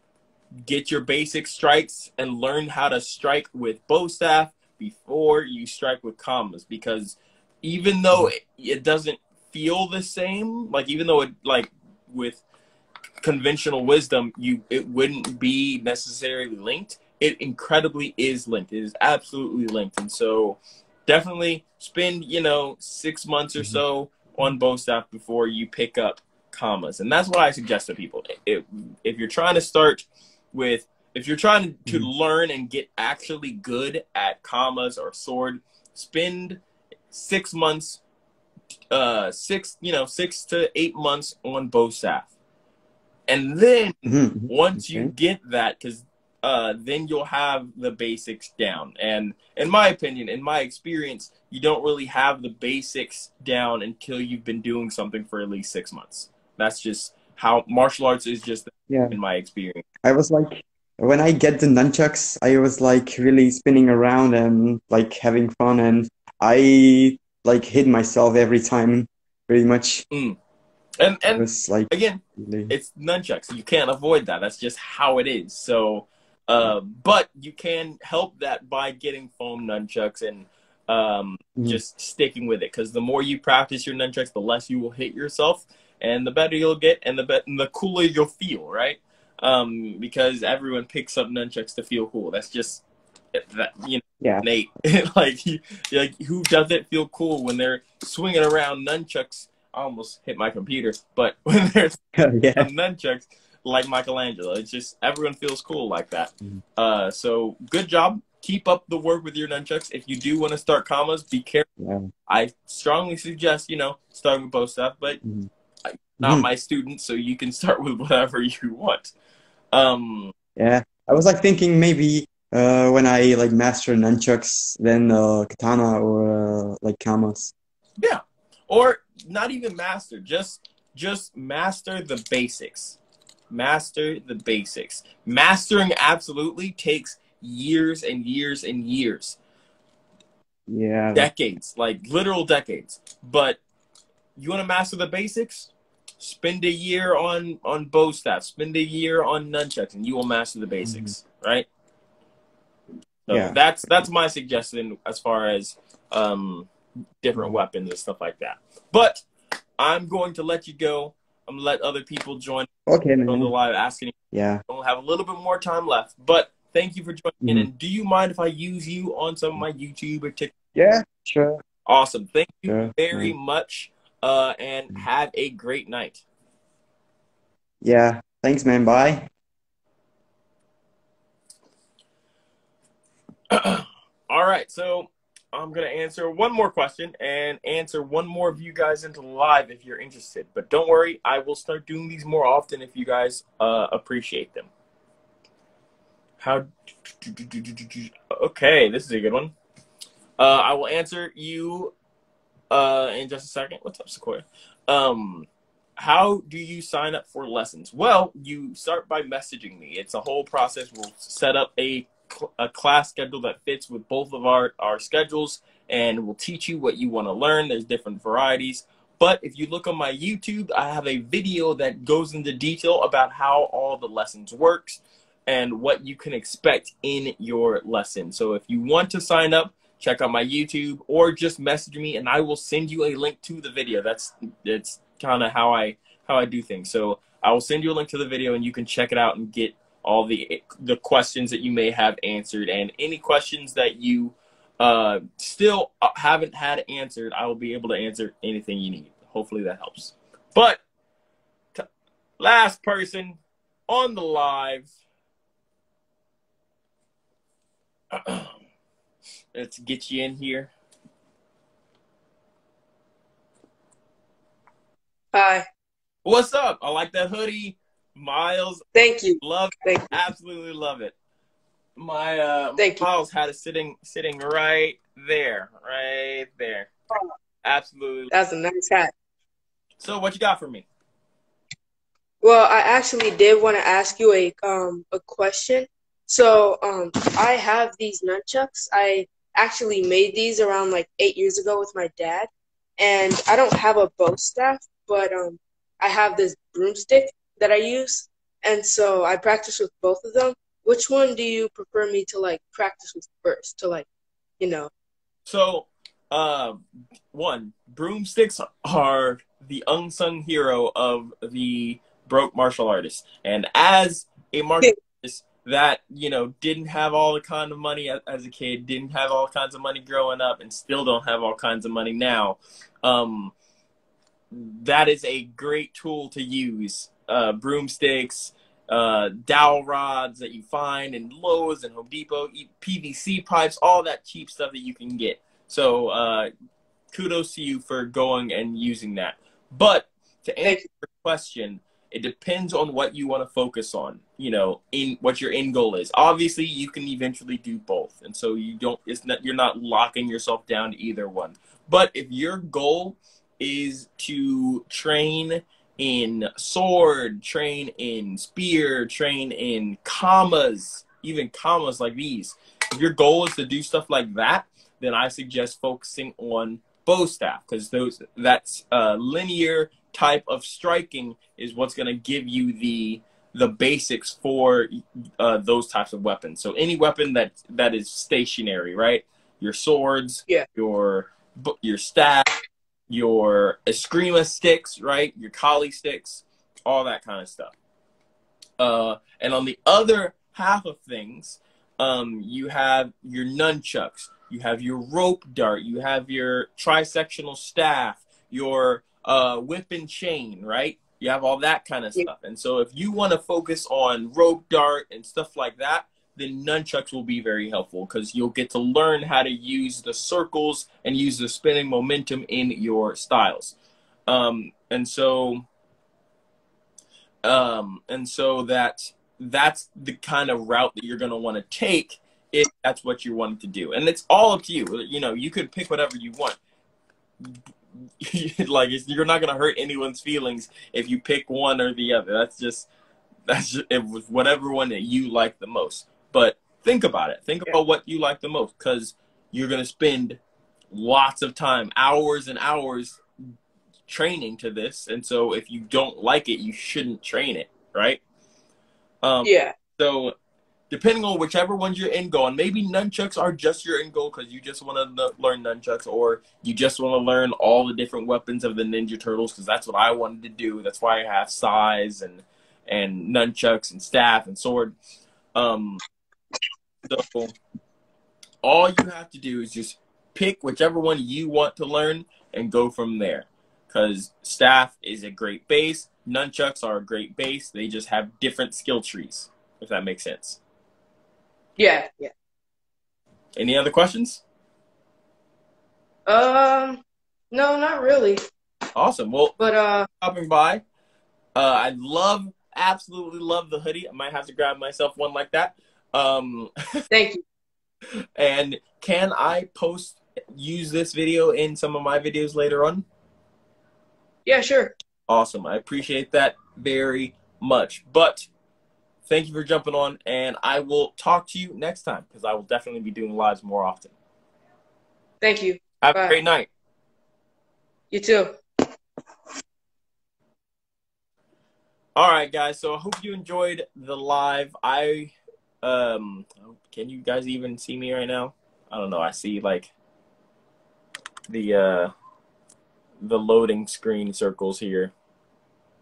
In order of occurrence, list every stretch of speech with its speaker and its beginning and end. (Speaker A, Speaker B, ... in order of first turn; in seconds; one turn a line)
Speaker A: 0.7-12.4
Speaker A: 13.2-38.0
Speaker A: 38.9-42.3
Speaker A: 43.3-59.8
Speaker B: 44.1-45.1
Speaker B: 58.9-59.2
Speaker B: 60.0-70.0
Speaker A: 70.1-70.4
Speaker A: 71.0-92.8
Speaker B: 71.4-72.7
Speaker A: 93.3-102.0
Speaker B: 102.2-102.7
Speaker A: 102.6-111.7
Speaker B: 111.8-112.1
Speaker A: 112.3-115.2
Speaker B: 115.2-115.5
Speaker A: 115.9-119.1
Speaker B: 116.2-116.5
Speaker A: 119.7-120.3
Speaker B: 120.6-127.5
Speaker A: 128.0-133.0
Speaker A: 133.5-139.4
Speaker B: 140.7-141.3
Speaker A: 141.2-143.6
Speaker A: 144.4-151.7
Speaker B: 150.8-151.1
Speaker A: 153.3-156.7
Speaker B: 153.3-153.6
Speaker A: 157.2-159.2
Speaker A: 159.8-164.2
Speaker B: 162.9-163.5
Speaker B: 164.3-164.6
Speaker A: 164.7-170.5
Speaker B: 167.4-167.7
Speaker B: 170.8-171.6
Speaker A: 171.9-176.2
Speaker B: 172.7-173.3
Speaker B: 177.8-179.3
Speaker A: 183.5-194.7
Speaker A: 196.4-199.5
Speaker A: 200.4-201.9
Speaker A: 202.7-250.8
Speaker A: 252.4-254.9
Speaker A: 258.1-258.6
Speaker A: 259.5-260.7
Speaker C: 265.3-265.6
Speaker A: 266.2-268.9
Speaker C: 268.9-270.2
Speaker A: 269.4-271.1
Speaker A: 272.0-276.9
Speaker C: 272.8-273.1
Speaker A: 277.6-278.3
Speaker C: 278.3-279.1
Speaker A: 280.0-280.9
Speaker C: 282.4-304.1
Speaker C: 304.6-304.9
Speaker A: 305.5-323.5
Speaker A: 324.5-336.5
Speaker A: 337.1-382.6
Speaker A: 383.1-387.7
Speaker A: 388.8-413.8
Speaker A: 414.3-415.6
Speaker A: 417.4-426.6
Speaker A: 428.2-432.9
Speaker A: 433.5-440.4
Speaker A: 440.9-443.2
Speaker A: 444.1-448.2
Speaker A: 449.2-450.3
Speaker C: 449.4-449.7
Speaker A: 450.9-464.9
Speaker A: 465.6-466.0
Speaker A: 467.1-467.6
Speaker A: 468.6-480.6
Speaker C: 481.8-482.3
Speaker A: 483.6-484.4
Speaker C: 486.3-487.0
Speaker C: 487.5-488.4
Speaker A: 488.9-489.6
Speaker C: 489.6-490.1
Speaker A: 490.2-490.8
Speaker A: 491.6-496.7
Speaker C: 497.1-497.4
Speaker A: 498.4-503.1
Speaker C: 504.5-504.9
Speaker A: 505.3-508.5
Speaker A: 509.3-514.1
Speaker C: 515.4-516.4
Speaker A: 516.0-516.7
Speaker C: 518.1-518.5
Speaker A: 522.2-529.9
Speaker A: 531.5-532.1
Speaker A: 533.2-535.1